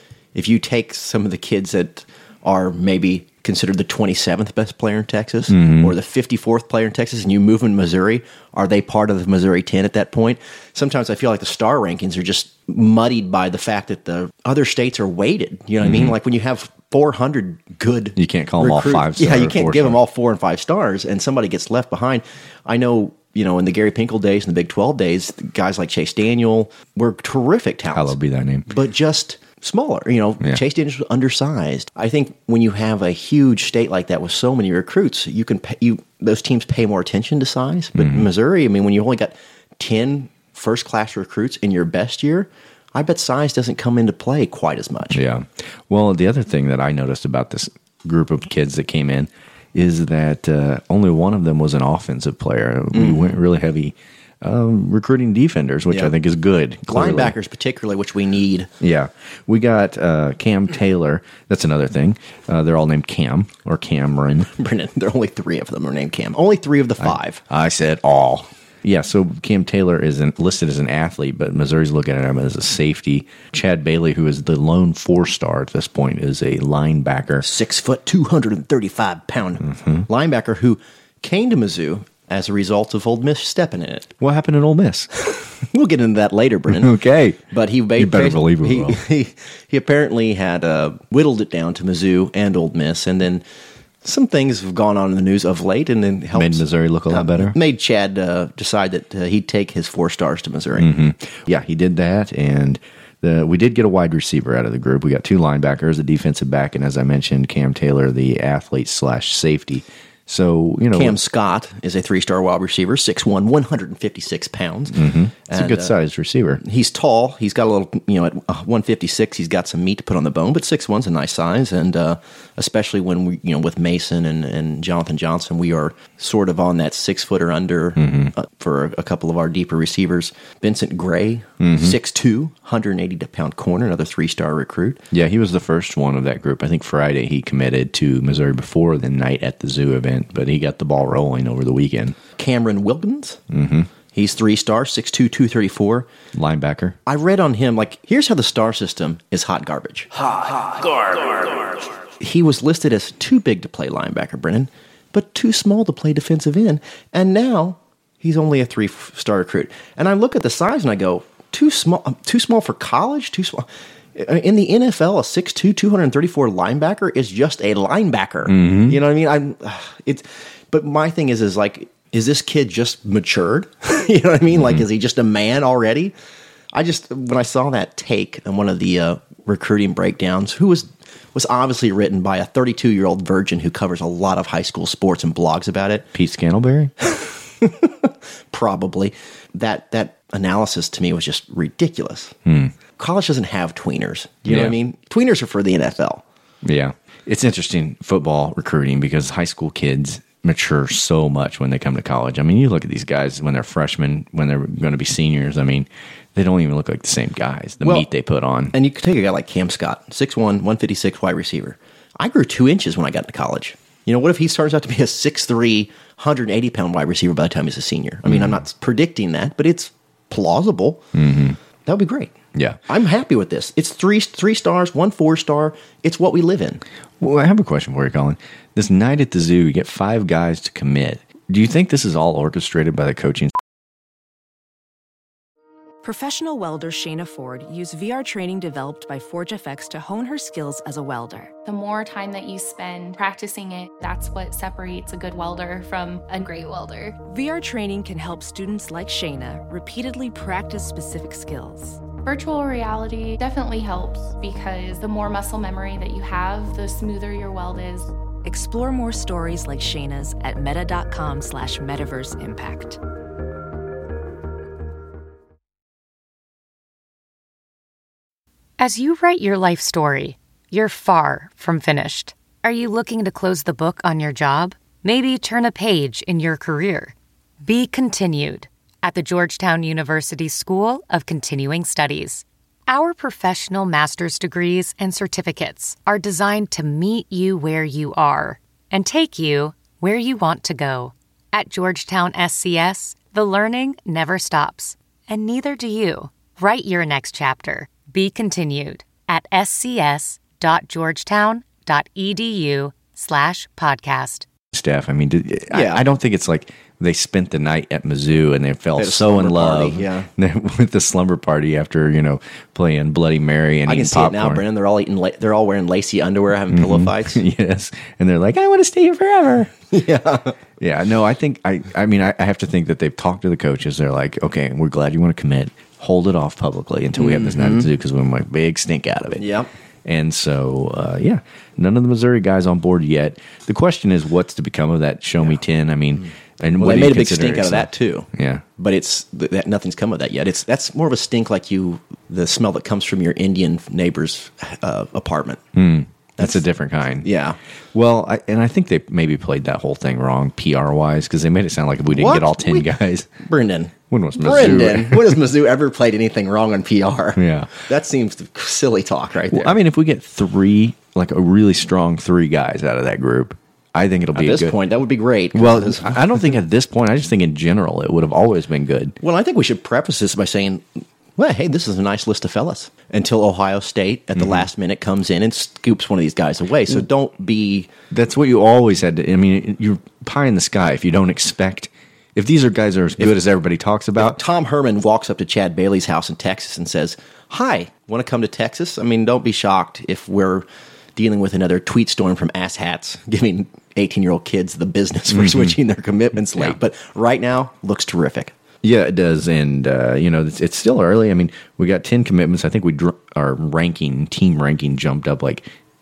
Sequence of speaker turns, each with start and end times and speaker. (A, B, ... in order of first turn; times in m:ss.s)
0:00.3-0:28.2 A
0:05.5-0:05.9 B
0:15.8-0:16.2 B
0:18.2-0:20.0 B
0:27.9-0:28.7 B
0:28.7-0:45.2 A
0:38.0-0:38.3 B
0:45.1-0:57.4 B
0:52.9-0:53.3 A
0:56.9-0:58.7 A
0:58.8-1:04.5 B
1:04.6-1:07.4 A
1:07.0-1:17.4 B
1:17.4-1:24.1 A
1:19.6-1:20.1 B
1:24.2-1:25.1 B
1:25.4-1:26.9 A
1:26.7-1:27.4 B
1:27.5-1:33.4 A
1:28.0-1:29.0 B
1:34.0-1:40.9 A
1:36.3-1:37.6 B
1:40.8-1:51.2 B
1:50.9-1:56.0 A
1:54.9-1:56.6 B
1:56.6-2:15.0 A
2:08.0-2:08.3 B
2:11.6-2:12.0 B
2:15.1-2:22.2 B
2:22.4-2:23.4 A
2:23.5-2:23.9 B
2:24.1-2:26.1 A
2:26.3-2:27.0 B
2:27.1-2:30.1 A
2:30.9-2:31.6 A
2:32.2-2:56.1 A
2:48.5-2:49.0 B
2:56.7-3:06.1 A
3:06.1-3:06.9 B
3:07.1-3:12.4 A
3:12.5-3:12.7 B
3:13.0-3:16.2 A
3:14.5-3:14.8 B
3:16.6-3:28.8 B
3:28.7-3:41.0 A
3:38.3-3:38.6 B
3:41.1-3:41.6 B
3:41.9-3:42.3 A
3:42.9-3:46.8 A
3:47.2-3:53.6 B
3:56.0-4:01.5 C
4:01.7-4:07.2 D
4:07.3-4:12.0 C
4:12.2-4:18.1 D
4:18.4-4:23.0 C
4:28.8-5:04.5 E
5:04.7-5:14.6 B
5:05.7-5:06.0 A
5:09.0-5:10.3 A
5:13.9-5:17.4 A
5:16.7-5:19.7 B
5:19.9-5:20.6 A
5:20.8-5:29.4 B
5:27.2-5:27.9 A
5:29.4-5:29.7 A
5:30.0-5:38.6 B
5:36.8-5:45.6 A
5:45.8-5:47.3 B
5:46.4-5:46.6 A
5:47.2-5:47.6 A
5:47.9-5:53.3 B
5:52.1-5:59.8 A
5:54.1-5:55.4 B
5:57.4-5:57.7 B
5:59.5-6:04.8 B
6:04.3-6:06.5 A
6:05.5-6:09.2 B
6:09.2-6:10.8 A
6:11.4-6:17.9 A
6:14.4-6:14.6 B
6:18.1-6:24.4 B
6:24.2-6:38.5 A
6:35.3-6:35.8 B
6:38.8-6:45.6 B